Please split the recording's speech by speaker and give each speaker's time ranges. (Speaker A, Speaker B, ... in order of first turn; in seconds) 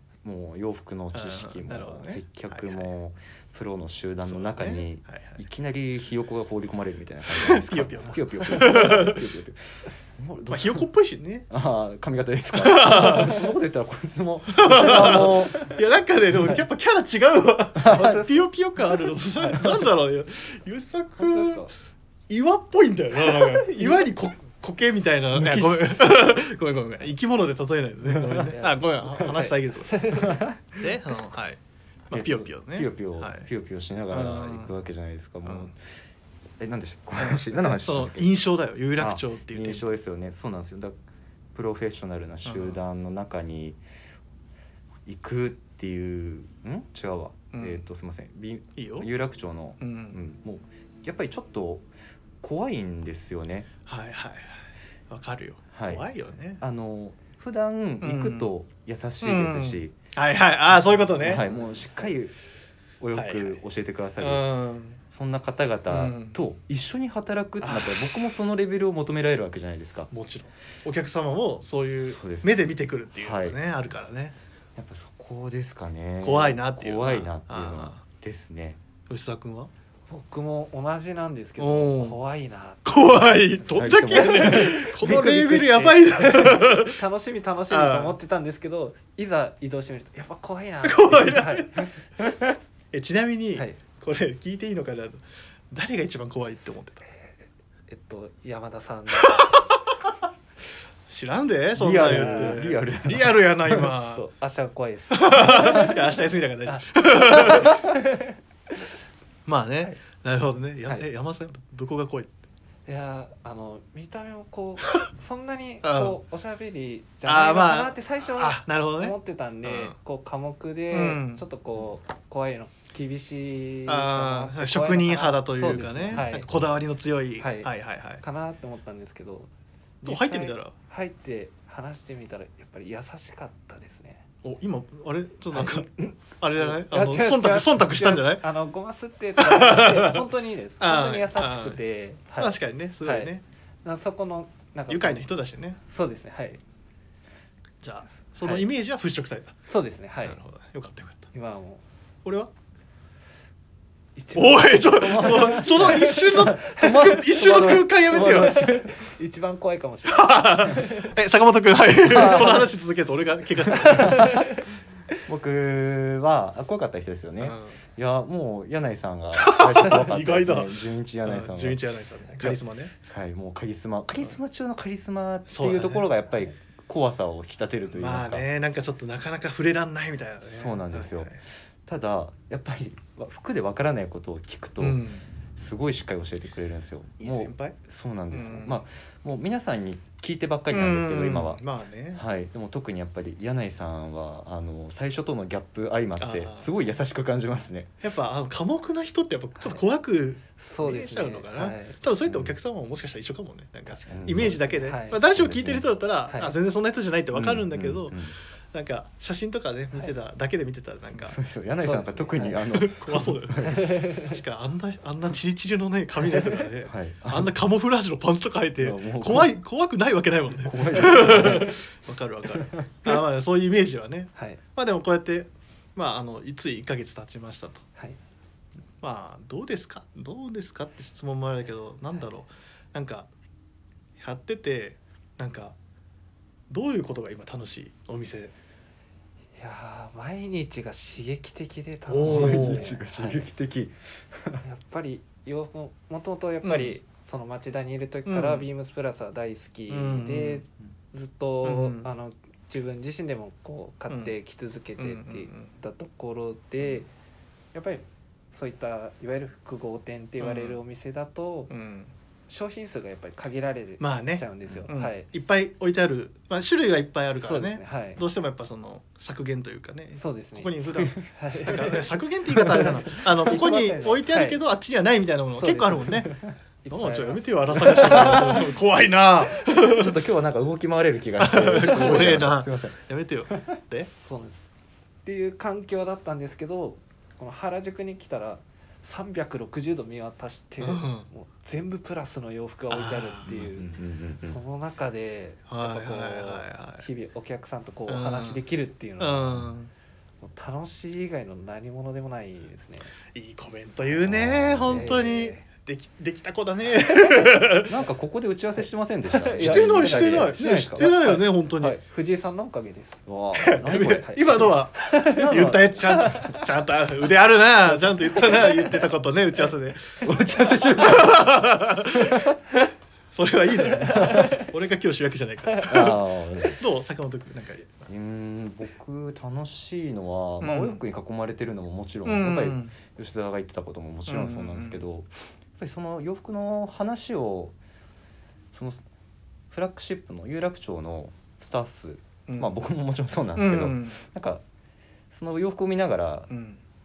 Speaker A: 0.2-10.8, 11.5-15.7, 17.8-18.2, 19.5-19.8, 25.3-26.4, 30.2-30.6, 32.1-35.8, 36.6-38.3, 39.0-40.9, 41.5-43.8, 45.0-51.9, 52.4-53.7, 55.7-56.1, 56.6-59.9, 61.2-62.3, 63.0-64.5, 65.1-70.1, 72.0-72.6, 73.2-73.6, 74.8-78.8, 83.8-85.9, 101.8-103.8, 155.0-156.1, 156.6-158.9, 162.0-162.7, 163.8-164.6, 165.2-171.8, 172.4-178.4, 180.4-185.0, 185.6-191.6, 192.1-197.9, 202.3-202.5, 204.1-205.8, 207.3-208.3, 211.2-214.1, 216.8-217.6, 218.8-219.5, 220.6-221.7, 222.6-223.1, 242.2-244.6, 270.9-271.2, 279.8-283.0, 293.4-294.6, 304.2-305.2, 307.9-311.3, 313.3-314.7, 315.2-316.3, 320.2-321.6, 322.1-322.6, 324.0-324.6, 325.8-326.8, 328.1-337.8, 338.7-339.0, 339.7-344.6, 345.3-346.5
Speaker B: 1.1-2.9, 4.2-5.4, 7.3-9.2, 10.5-11.5, 12.6-13.4, 14.5-21.7, 22.3-31.6, 32.1-33.5, 34.1-34.7, 35.4-35.7, 37.2-39.9, 42.5-42.8, 47.5-47.8, 48.8-49.1, 49.8-50.2, 53.9-54.6, 55.1-56.6, 58.0-58.5, 59.2-61.4, 63.1-63.6, 64.2-65.0, 65.9-66.4, 67.6-68.2, 70.1-74.3, 76.2-78.0, 79.1-79.7, 81.6-82.2, 82.8-87.0, 87.7-88.2, 90.8-91.8, 92.9-97.0, 99.2-99.7, 101.1-104.2, 105.1-107.8, 109.5-112.3, 115.8-116.2, 117.2-120.0, 120.9-121.4, 123.8-128.2, 130.0-130.7, 134.4-138.4, 139.4-140.2, 140.8-141.8, 142.4-143.4, 144.9-145.8, 147.8-149.5, 150.2-151.3, 152.2-152.5, 154.3-158.6, 160.1-164.3, 167.4-167.8, 169.3-172.9, 175.5-176.1, 177.9-181.4, 184.8-185.2, 187.2-187.8, 188.3-188.8, 190.7-192.2, 196.2-196.7, 198.0-211.4, 212.7-227.8, 229.0-233.3, 234.2-235.7, 236.7-238.5, 242.1-242.9, 246.6-246.9, 248.2-248.7, 249.9-250.6, 251.6-252.1, 254.1-254.3, 255.0-255.7, 260.4-260.8, 261.7-262.1, 264.0-276.3, 276.9-280.1, 281.4-284.1, 290.8-291.3, 292.9-293.5, 295.7-297.1, 298.1-298.6, 299.2-299.9, 303.3-307.9, 309.6-312.0, 313.6-320.2, 320.9-322.5, 323.3-328.1, 330.6-331.0, 332.2-332.9, 334.3-335.0, 342.5-342.8, 343.6-344.2, 346.5-346.8
Speaker C: 17.9-18.4, 21.2-21.7, 23.3-24.0, 28.5-30.4, 80.1-91.9, 97.9-99.5, 102.0-102.7, 103.9-106.1, 106.6-108.3, 112.8-126.5, 127.4-129.5, 130.0-134.2, 136.6-143.3, 143.8-145.2, 145.9-146.6, 149.7-150.4, 151.3-151.8, 154.2-161.1, 162.2-162.6, 163.7-164.6, 200.6-202.0, 204.0-205.2, 206.3-206.5, 211.8-212.6, 213.8-214.3, 224.3-224.6, 239.6-243.4, 244.6-257.1, 257.7-261.7, 262.5-265.3, 267.4-268.2, 270.1-274.6, 275.6-278.7, 282.0-282.3, 284.1-284.7, 285.2-299.6, 300.4-303.1, 304.8-305.6, 309.3-313.2, 313.9-316.5, 318.1-319.0, 324.1-324.7, 325.8-326.1